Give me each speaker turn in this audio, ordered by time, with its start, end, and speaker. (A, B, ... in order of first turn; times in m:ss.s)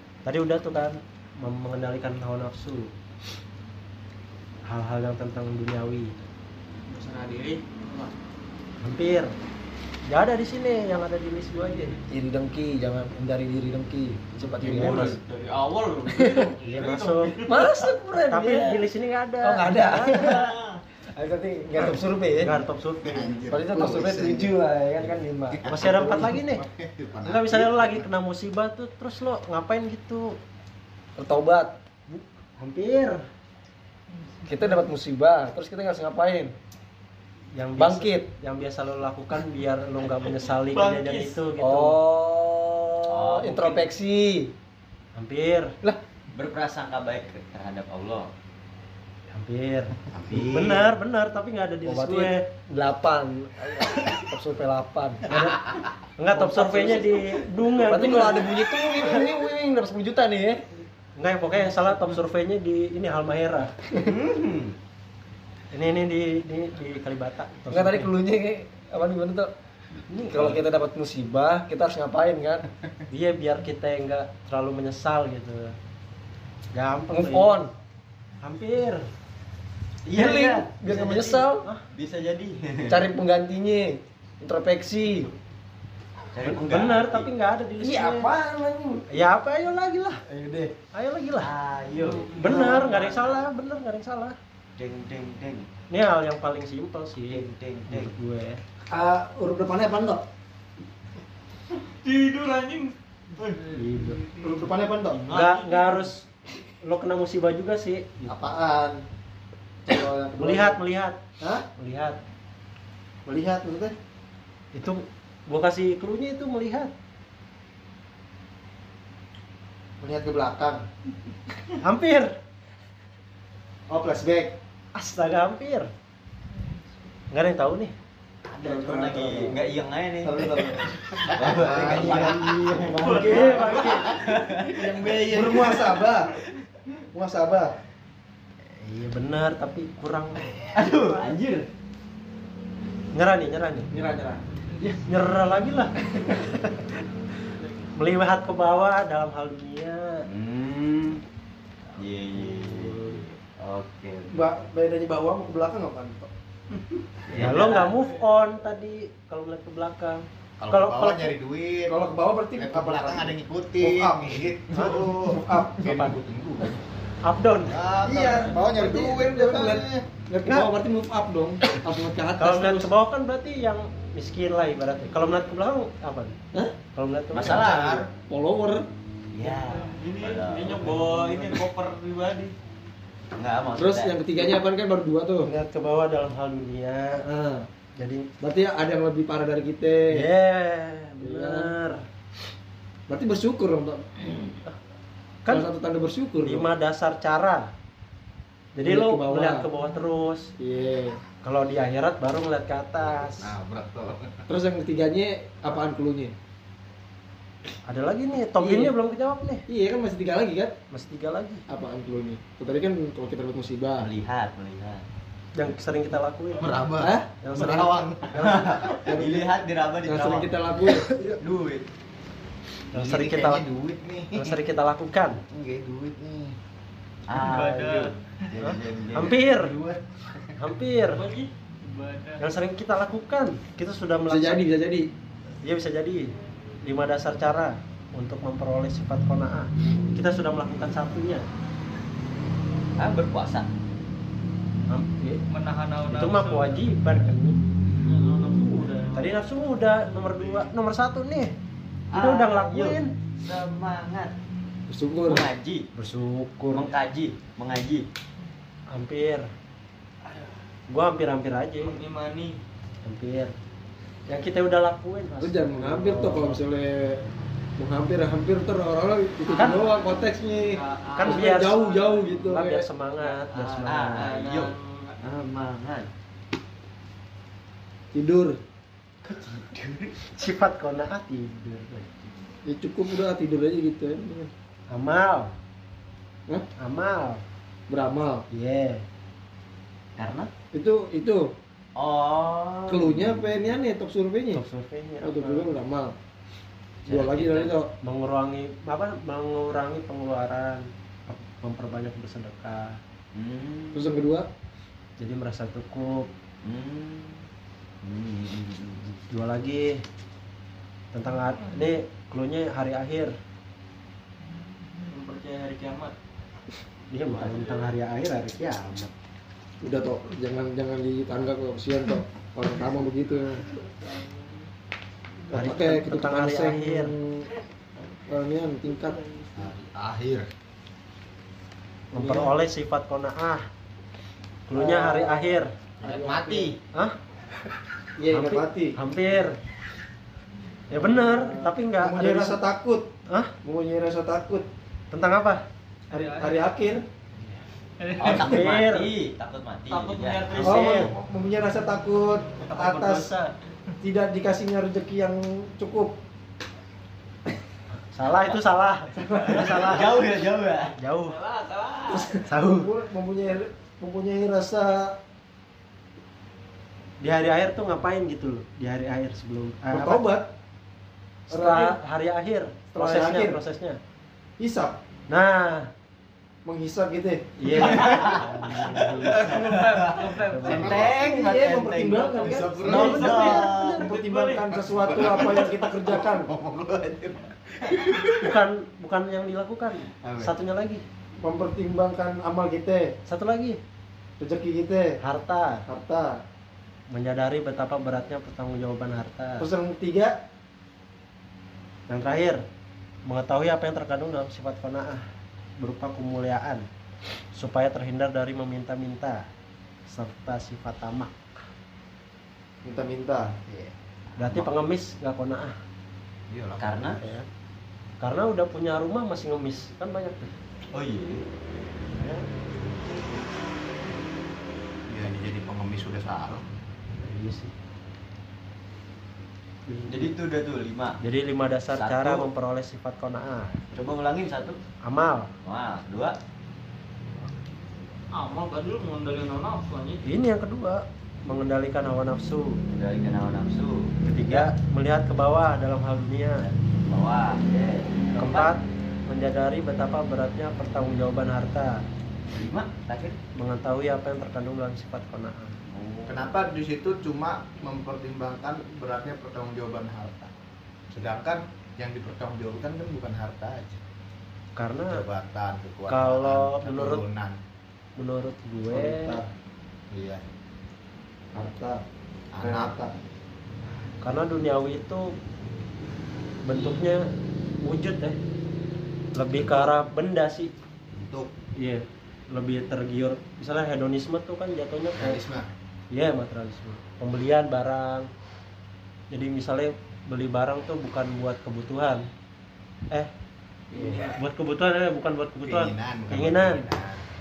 0:00.2-0:02.9 A
0:04.7-0:06.1 A
0:06.9-0:08.1 B
0:08.8-0:09.3 A
0:10.1-0:12.0 A
0:12.1-0:15.2 C
0:14.4-0:15.1 A
0:14.6-0:17.7 B
0:16.1-0:16.5 C
0:16.6-0:17.4 A
0:17.4-0:18.9 C
0:18.3-0:20.4 A
0:19.4-0:20.5 C
0:20.1-0:20.8 B
0:21.2-0:22.6 C
0:22.4-0:23.3 A
0:23.0-0:24.5 D
0:23.5-0:26.3 C
0:25.5-0:28.0 D
0:25.6-0:26.6 A
0:27.2-0:30.4 A
0:31.2-0:31.7 C
0:32.1-0:33.2 A
0:34.1-0:34.8 E
0:34.4-0:36.5 C
0:37.5-0:42.0 A
0:37.8-0:38.3 C
0:40.4-0:41.4 B
0:41.6-0:44.5 C
0:43.1-0:43.9 F
0:45.2-0:45.7 A
0:46.3-0:48.3 F
0:49.3-0:52.4 A
0:50.1-0:50.9 D
0:50.3-0:50.8 C
0:51.8-0:55.5 C
0:55.3-0:55.6 A
0:56.2-0:58.5 A
0:56.3-0:57.2 C
0:57.7-1:00.6 C
1:01.2-1:03.7 A
1:04.0-1:04.7 F
1:05.7-1:08.1 A
1:07.7-1:09.5 C
1:10.1-1:12.6 C
1:13.1-1:15.8 A
1:16.7-1:17.6 A
1:17.1-1:17.7 C
1:18.4-1:19.1 A
1:20.0-1:23.0 F
1:20.1-1:21.6 C
1:22.9-1:25.3 C
1:26.3-1:27.3 F
1:26.4-1:28.3 A
1:27.8-1:29.1 C
1:29.1-1:30.2 A
1:30.3-1:30.7 C
1:30.9-1:31.5 A
1:31.4-1:32.7 F
1:32.3-1:33.4 B
1:32.3-1:34.4 A
1:32.4-1:32.8 C
1:34.8-1:35.7 F
1:35.9-1:38.6 A
1:37.3-1:38.1 F
1:38.9-1:40.2 C
1:42.0-1:43.6 B
1:43.7-1:44.2 A
1:43.9-1:44.6 E
1:44.4-1:45.2 C
1:45.1-1:46.1 B
1:45.3-1:46.3 A
1:46.8-1:48.3 A
1:48.2-1:49.0 C
1:49.8-1:50.8 C
1:50.4-1:52.2 A
1:53.2-1:53.9 C
1:54.7-1:56.9 A
2:00.0-2:00.8 C
2:01.8-2:02.3 A
2:03.9-2:04.6 C
2:04.9-2:05.9 A
2:07.3-2:07.9 A
2:08.6-2:09.7 C
2:08.6-2:15.2 F
2:10.2-2:14.0 C
2:11.1-2:12.8 D
2:13.0-2:14.2 A
2:13.0-2:13.6 E
2:13.7-2:16.1 D
2:15.2-2:16.3 C
2:17.1-2:17.8 C
2:18.8-2:20.7 A
2:20.7-2:21.7 F
2:23.1-2:23.9 A
2:23.9-2:24.4 C
2:25.0-2:26.9 A
2:27.6-2:27.9 E
2:27.9-2:30.3 A
2:30.2-2:31.2 F
2:32.0-2:33.0 F
2:32.4-2:33.2 C
2:33.6-2:34.4 F
2:34.3-2:36.3 C
2:37.2-2:38.0 F
2:37.4-2:41.3 A
2:37.4-2:37.7 C
2:40.6-2:42.0 D
2:41.9-2:46.0 C
2:42.6-2:46.8 D
2:44.7-2:45.0 A
2:45.8-2:46.2 A
2:47.2-2:47.8 A
2:47.6-2:50.0 D
2:48.0-2:52.9 C
2:52.4-2:56.4 A
2:56.9-2:57.7 A
2:57.3-2:58.0 F
2:57.4-2:58.1 D
2:58.3-2:58.8 C
2:59.3-3:01.0 F
3:00.0-3:02.5 B
3:00.7-3:01.6 A
3:03.4-3:04.2 F
3:03.7-3:05.5 C
3:05.4-3:07.3 A
3:07.3-3:07.6 C
3:07.9-3:08.3 A
3:08.4-3:10.2 C
3:10.1-3:12.0 A
3:11.2-3:11.7 C
3:13.1-3:14.7 C
3:15.5-3:16.7 C
3:16.4-3:17.7 A
3:18.7-3:20.5 A
3:18.8-3:19.7 C
3:20.6-3:21.2 C
3:21.4-3:23.6 A
3:23.4-3:24.4 D
3:24.5-3:26.3 C
3:27.8-3:29.6 A
3:28.6-3:28.9 C
3:29.7-3:30.7 C
3:30.9-3:31.6 A
3:31.7-3:34.1 C
3:34.0-3:35.0 F
3:35.5-3:36.8 A
3:36.5-3:38.6 D
3:37.0-3:38.0 C
3:37.4-3:38.7 A
3:38.3-3:41.9 F
3:39.0-3:39.5 C
3:40.0-3:41.4 C
3:42.9-3:43.6 A
3:42.9-3:44.6 D
3:44.3-3:45.4 A
3:45.5-3:46.6 D
3:47.3-3:49.4 F
3:47.3-3:48.1 E
3:48.6-3:49.7 A
3:49.5-3:50.5 D
3:50.6-3:51.2 A
3:51.1-3:51.5 B
3:51.8-3:52.4 E
3:52.4-3:54.6 A
3:54.3-3:55.1 C
3:55.6-4:01.5 A
4:03.0-4:03.7 F
4:04.9-4:05.4 A
4:05.5-4:06.9 E
4:06.0-4:07.6 A
4:08.0-4:09.5 B
4:09.1-4:11.5 A
4:12.1-4:14.3 F
4:12.1-4:13.1 A
4:14.9-4:15.5 C
4:15.3-4:15.8 F
4:16.0-4:16.9 A
4:16.7-4:18.1 F
4:18.9-4:19.4 A
4:20.9-4:22.0 A
4:21.8-4:22.6 B
4:23.0-4:23.5 A
4:24.3-4:26.6 A
4:25.4-4:27.2 C
4:27.8-4:32.9 C
4:29.5-4:29.9 B
4:29.6-4:29.8 A
4:30.6-4:32.4 B
4:31.2-4:34.4 A
4:33.3-4:36.1 F
4:34.1-4:35.2 B
4:38.1-4:38.6 C
4:39.2-4:40.1 F
4:40.3-4:42.1 A
4:42.6-4:44.5 C
4:44.9-4:45.5 A
4:46.8-4:47.4 A
4:47.9-4:48.4 C
4:48.5-4:49.0 A
4:50.2-4:50.5 F
4:50.7-4:51.5 C
4:52.0-4:53.7 F
4:52.8-4:54.6 C
4:54.5-4:55.7 A
4:55.2-4:56.1 C
4:57.0-4:57.8 F
4:57.1-4:57.9 C
4:58.0-5:03.0 A
5:03.3-5:04.1 F
5:03.9-5:04.5 C
5:05.2-5:06.3 A
5:06.6-5:07.4 F
5:08.0-5:09.2 F
5:09.3-5:10.0 A
5:11.1-5:13.3 A
5:14.9-5:16.1 B
5:17.1-5:19.1 A
5:19.8-5:23.6 C
5:23.7-5:24.7 E
5:25.5-5:27.1 A
5:25.5-5:27.5 C
5:28.3-5:29.2 C
5:28.9-5:29.6 E
5:29.5-5:30.5 D
5:32.1-5:33.6 A
5:32.2-5:32.5 D
5:34.7-5:35.7 A
5:34.7-5:36.7 C
5:36.0-5:36.8 D
5:38.2-5:39.0 C
5:38.3-5:39.6 A
5:40.9-5:42.6 A
5:40.9-5:43.1 C
5:43.3-5:43.5 A
5:43.6-5:44.6 C
5:45.1-5:45.6 A
5:46.1-5:46.6 E
5:46.1-5:47.0 C
5:48.0-5:48.4 E
5:48.2-5:51.0 F
5:48.2-5:49.1 A
5:49.9-5:51.1 B
5:50.6-5:51.1 A
5:50.6-5:53.4 C
5:52.7-5:53.5 E
5:54.0-5:56.2 C
5:57.9-6:00.2 A
5:59.1-6:00.9 F
6:01.0-6:01.4 A
6:01.2-6:02.4 B
6:02.3-6:02.9 A
6:02.6-6:05.2 C
6:07.2-6:10.3 A
6:09.8-6:10.5 C
6:11.5-6:12.0 C
6:11.5-6:14.0 A
6:12.9-6:13.6 C
6:14.6-6:15.0 C
6:15.3-6:15.9 A
6:16.6-6:18.4 C
6:17.6-6:19.6 A
6:17.7-6:24.0 F
6:19.3-6:20.8 B
6:20.5-6:20.9 A
6:20.6-6:26.5 C
6:20.6-6:21.1 D
6:22.4-6:23.3 D
6:22.9-6:23.4 A
6:22.9-6:24.7 B
6:24.9-6:28.5 D
6:28.4-6:31.0 A
6:30.2-6:30.5 D
6:31.4-6:33.1 C
6:33.3-6:33.8 A
6:34.4-6:35.2 C
6:35.2-6:35.8 A
6:35.8-6:36.3 C
6:37.1-6:39.7 A
6:39.6-6:40.4 C
6:42.1-6:42.6 A
6:43.2-6:45.2 A
6:45.8-6:46.8 A
6:47.5-6:49.4 A
6:50.1-6:51.4 A
6:52.8-6:53.6 C
6:53.7-6:55.7 A
6:56.5-6:57.2 D
6:56.8-6:57.2 F
6:57.2-6:57.5 A
6:58.2-7:00.5 A
7:00.9-7:01.4 F
7:02.2-7:02.4 D
7:05.1-7:06.6 D
7:07.2-7:07.7 A
7:09.9-7:10.3 A
7:10.1-7:11.2 F
7:11.2-7:13.8 A
7:11.9-7:12.4 F
7:13.9-7:14.8 F
7:15.0-7:15.5 A
7:15.6-7:16.4 F
7:18.3-7:20.2 B
7:20.2-7:22.8 A
7:22.9-7:24.6 F
7:24.2-7:26.7 A
7:26.6-7:28.7 F
7:28.3-7:32.0 A
7:32.5-7:33.4 F
7:33.6-7:35.8 A
7:35.9-7:36.6 F
7:36.3-7:40.5 D
7:41.1-7:44.0 D
7:44.8-7:45.2 A
7:45.1-7:47.6 D
7:46.1-7:47.2 A
7:48.2-7:49.4 A
7:48.9-7:49.4 C
7:50.1-7:50.4 D
7:51.5-7:52.0 C
7:52.5-7:53.1 D
7:52.6-7:53.1 C
7:54.2-7:55.3 A
7:56.6-7:57.3 A
7:57.8-7:58.4 A
7:59.3-8:00.7 A
7:59.6-7:59.9 D
8:01.1-8:01.5 D
8:01.8-8:05.4 A
8:05.2-8:05.7 D
8:06.1-8:08.3 A
8:09.3-8:12.3 A
8:13.9-8:14.3 F
8:14.0-8:16.9 A
8:15.6-8:17.2 D